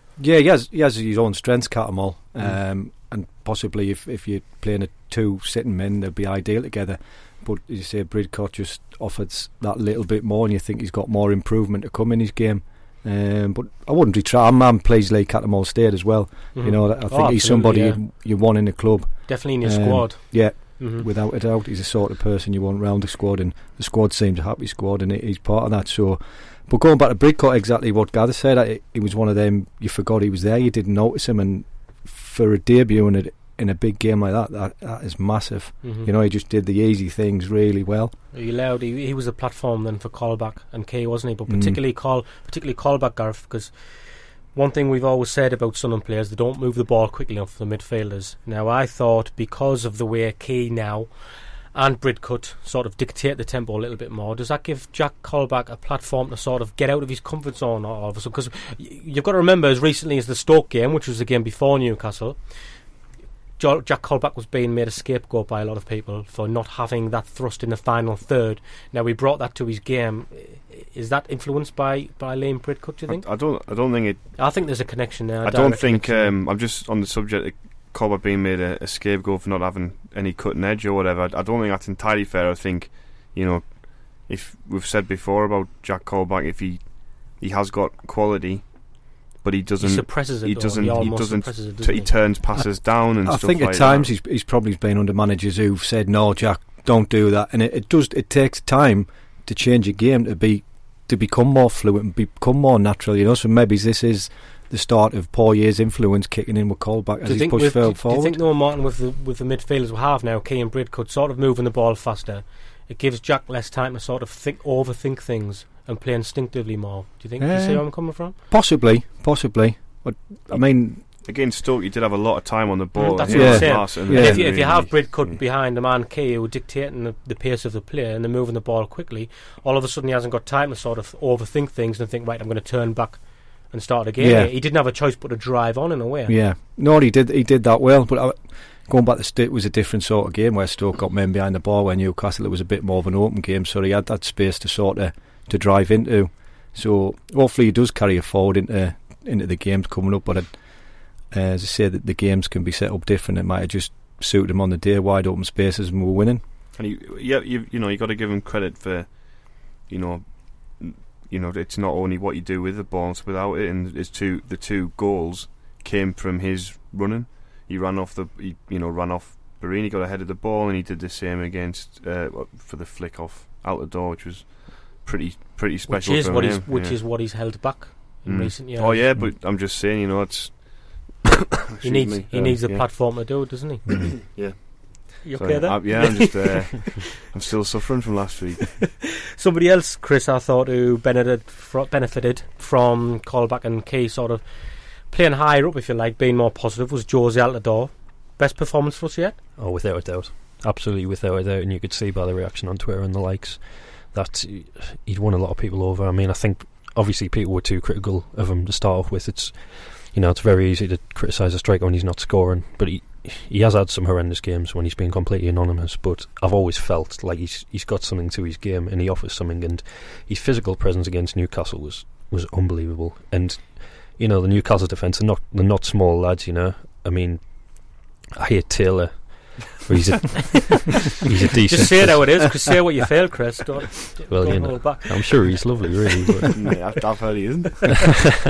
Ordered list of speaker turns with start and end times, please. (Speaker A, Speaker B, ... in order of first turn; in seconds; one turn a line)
Speaker A: 0.2-38.1
Speaker B: 16.5-18.0
Speaker B: 19.3-21.1
Speaker B: 35.8-36.1
Speaker B: 38.3-63.0
Speaker A: 41.5-41.8
Speaker B: 63.6-76.4
Speaker C: 73.1-74.8
Speaker C: 75.4-94.1
Speaker B: 89.8-92.2
Speaker A: 92.9-108.4
Speaker B: 107.2-118.3
Speaker A: 117.4-121.0
Speaker C: 121.2-125.4
Speaker B: 123.0-136.4
Speaker A: 123.3-124.8
Speaker A: 134.2-134.5
Speaker A: 136.3-156.4
Speaker C: 156.8-177.6
Speaker B: 175.9-179.0
Speaker C: 178.2-181.2
Speaker C: 181.8-183.4
Speaker B: 181.8-184.4
Speaker C: 184.3-188.9
Speaker B: 185.2-187.0
Speaker B: 189.4-199.4
Speaker D: 199.6-232.5
Speaker B: 231.7-235.8
Speaker D: 234.3-236.5
Speaker C: 236.6-238.2